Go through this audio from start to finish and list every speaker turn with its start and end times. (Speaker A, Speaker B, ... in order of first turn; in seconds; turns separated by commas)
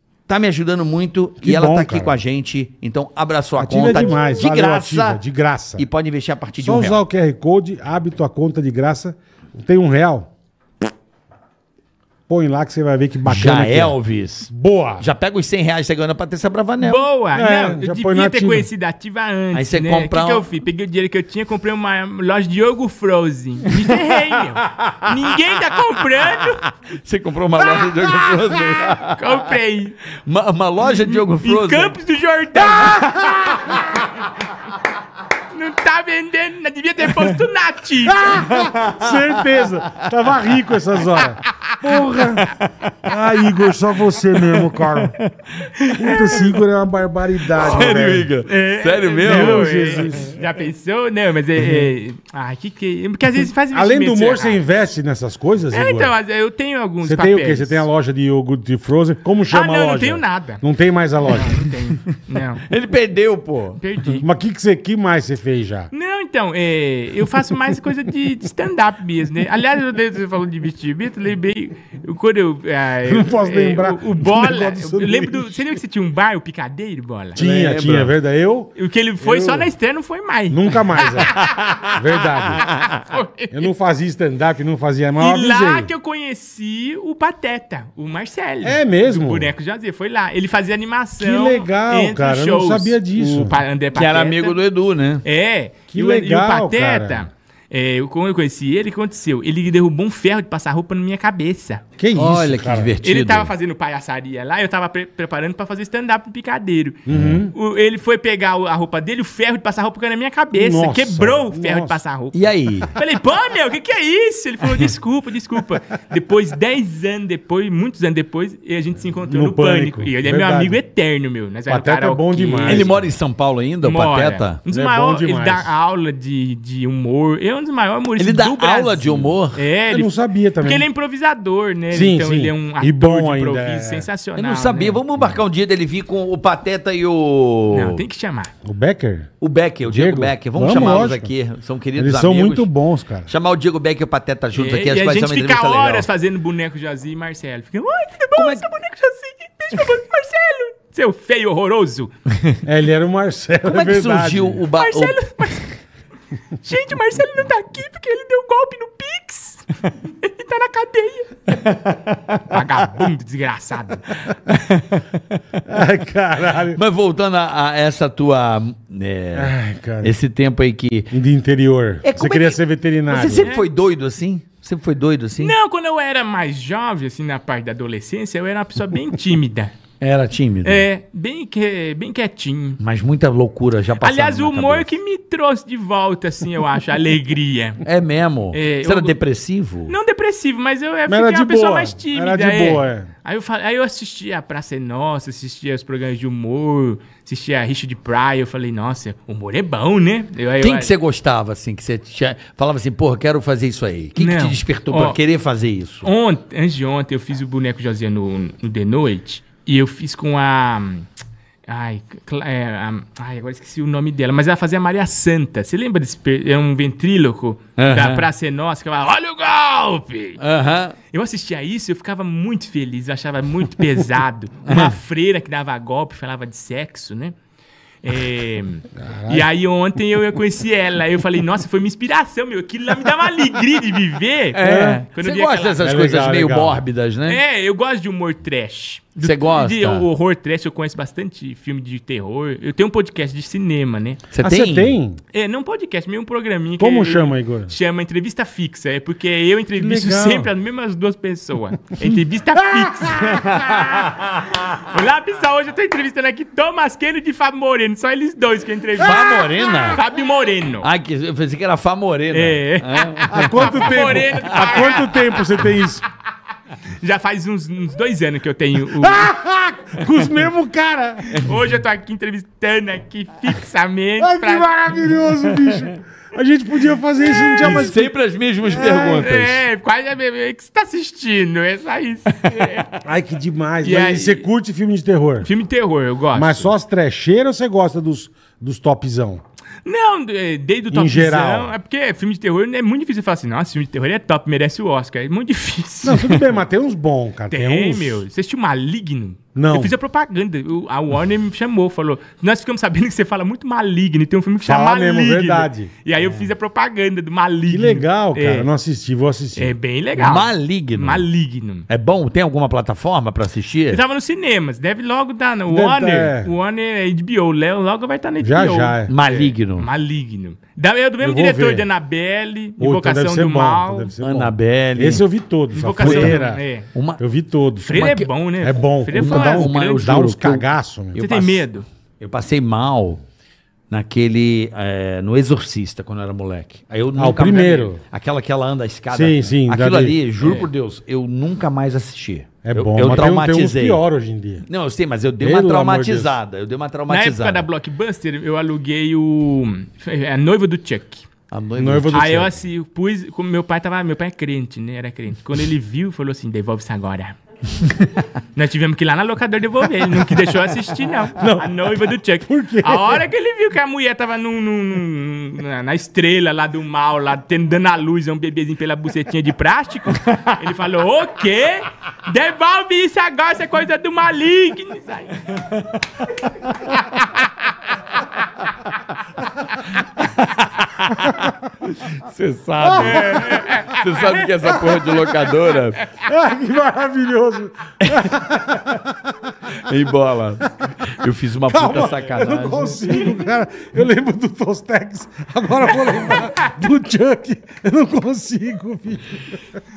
Speaker A: 0.3-5.2, Speaker B: 1.4-2.2, Speaker B: 3.6-5.9, Speaker A: 5.8-7.0, Speaker B: 6.6-10.3, Speaker B: 12.3-14.0, Speaker A: 13.3-17.1, Speaker B: 14.5-15.1, Speaker C: 16.8-26.6, Speaker B: 17.3-18.7, Speaker A: 19.5-20.5, Speaker A: 24.6-25.2, Speaker A: 26.1-29.4, Speaker C: 29.1-30.0, Speaker A: 30.2-32.0, Speaker C: 31.0-33.5, Speaker B: 32.8-34.0, Speaker C: 35.5-38.5, Speaker B: 38.2-45.2, Speaker A: 38.3-40.1, Speaker C: 41.5-41.8, Speaker A: 41.9-43.6, Speaker A: 44.3-45.7, Speaker C: 45.8-46.5, Speaker B: 46.0-48.3, Speaker A: 47.5-49.9, Speaker C: 47.7-54.6, Speaker B: 49.2-50.4, Speaker B: 53.7-56.1, Speaker C: 55.7-57.9, Speaker B: 57.0-61.6, Speaker C: 59.5-60.6, Speaker C: 61.2-62.6, Speaker A: 62.6-63.8, Speaker C: 63.8-64.3, Speaker B: 64.2-65.9, Speaker C: 65.9-77.4, Speaker B: 73.0-75.7, Speaker A: 77.4-78.1, Speaker B: 77.4-79.7, Speaker C: 78.8-81.6, Speaker B: 80.5-82.7, Speaker A: 81.4-82.9, Speaker C: 82.7-83.7, Speaker B: 83.5-85.9, Speaker C: 85.2-94.6, Speaker B: 88.6-89.5, Speaker B: 91.2-93.6, Speaker A: 93.9-95.2, Speaker C: 95.2-101.8, Speaker B: 95.9-97.3, Speaker B: 102.0-102.9, Speaker A: 102.2-103.5, Speaker C: 103.0-112.4, Speaker B: 107.1-107.5, Speaker A: 107.1-107.4, Speaker B: 110.5-112.0, Speaker A: 112.3-112.9, Speaker C: 112.9-123.0, Speaker B: 119.3-120.8, Speaker B: 121.7-123.0, Speaker A: 122.7-124.6, Speaker C: 123.8-135.0, Speaker B: 124.7-125.7, Speaker A: 128.2-129.6, Speaker B: 129.9-130.9, Speaker B: 131.9-134.1, Speaker A: 134.4-138.0, Speaker C: 137.7-138.5, Speaker B: 138.7-139.3, Speaker A: 139.4-142.7, Speaker B: 139.9-141.3, Speaker B: 142.0-143.3, Speaker A: 143.3-146.1, Speaker C: 144.5-152.1, Speaker A: 148.4-148.7, Speaker B: 152.6-154.6, Speaker A: 153.7-155.6, Speaker C: 154.8-155.7, Speaker C: 156.6-159.7, Speaker C: 160.2-161.4, Speaker A: 161.5-162.6, Speaker C: 162.5-164.1, Speaker A: 164.5-165.6, Speaker B: 165.7-166.8, Speaker A: 166.7-171.1, Speaker B: 169.3-170.1, Speaker B: 171.1-173.5, Speaker A: 172.0-175.5, Speaker C: 173.4-173.7, Speaker C: 175.4-179.7, Speaker A: 180.0-180.9, Speaker C: 180.6-182.8, Speaker A: 182.8-184.9, Speaker C: 184.0-187.8, Speaker A: 187.8-189.9, Speaker C: 188.5-189.2, Speaker C: 189.9-200.9, Speaker B: 191.1-193.1, Speaker A: 200.6-206.1, Speaker C: 204.2-205.2, Speaker C: 206.0-211.1, Speaker C: 211.7-220.4, Speaker A: 217.8-218.3, Speaker A: 220.4-221.0, Speaker C: 221.1-227.3, Speaker A: 224.7-224.9, Speaker C: 228.0-235.8, Speaker B: 229.0-229.5, Speaker A: 234.5-237.4, Speaker B: 234.6-235.0, Speaker B: 235.8-236.8, Speaker C: 237.3-244.2, Speaker A: 239.2-240.1, Speaker A: 244.3-244.9, Speaker B: 244.4-245.2, Speaker C: 245.3-253.8, Speaker B: 246.8-247.7, Speaker B: 249.8-250.5, Speaker B: 252.6-253.4, Speaker A: 253.2-254.8, Speaker C: 254.5-260.9, Speaker A: 259.0-260.0, Speaker A: 260.8-264.9, Speaker C: 262.3-265.4, Speaker B: 263.3-266.0, Speaker C: 267.0-269.3, Speaker B: 269.0-271.4, Speaker C: 271.3-274.8, Speaker B: 274.2-278.1, Speaker A: 277.5-279.6, Speaker B: 278.8-279.2, Speaker C: 278.8-282.9, Speaker B: 283.0-285.5, Speaker C: 283.8-284.5, Speaker C: 285.4-286.7, Speaker B: 286.3-289.4, Speaker C: 289.9-296.4, Speaker B: 290.9-291.7, Speaker B: 296.0-298.2, Speaker C: 297.5-308.7, Speaker B: 299.6-299.9, Speaker B: 304.6-305.9, Speaker B: 307.7-309.7, Speaker C: 309.6-311.9, Speaker A: 310.2-311.3, Speaker A: 311.9-314.0, Speaker C: 313.9-324.1, Speaker B: 315.7-316.5, Speaker B: 318.4-319.1, Speaker A: 319.1-319.9, Speaker B: 321.2-321.9, Speaker B: 322.8-326.6, Speaker A: 324.2-325.2, Speaker C: 325.7-326.9, Speaker A: 326.0-327.2, Speaker B: 327.2-328.0, Speaker C: 327.9-330.1, Speaker A: 327.9-328.3, Speaker B: 328.6-331.2, Speaker A: 329.1-331.6, Speaker C: 331.2-331.9, Speaker A: 332.2-333.2, Speaker A: 333.9-344.0, Speaker B: 337.2-338.0, Speaker B: 339.1-340.2, Speaker C: 340.4-340.7, Speaker B: 342.6-344.7, Speaker A: 344.7-347.7, Speaker B: 345.4-346.4, Speaker C: 347.1-351.3, Speaker A: 351.5-352.5, Speaker B: 351.8-352.5, Speaker C: 352.1-357.4, Speaker C: 358.6-375.5, Speaker B: 361.4-363.2, Speaker A: 375.7-376.0, Speaker A: 376.7-376.9, Speaker C: 377.1-377.4, Speaker A: 380.0-386.0, Speaker B: 382.8-383.5, Speaker C: 383.0-384.5, Speaker B: 386.1-389.4, Speaker A: 388.0-388.3, Speaker A: 389.7-393.1, Speaker B: 391.7-399.8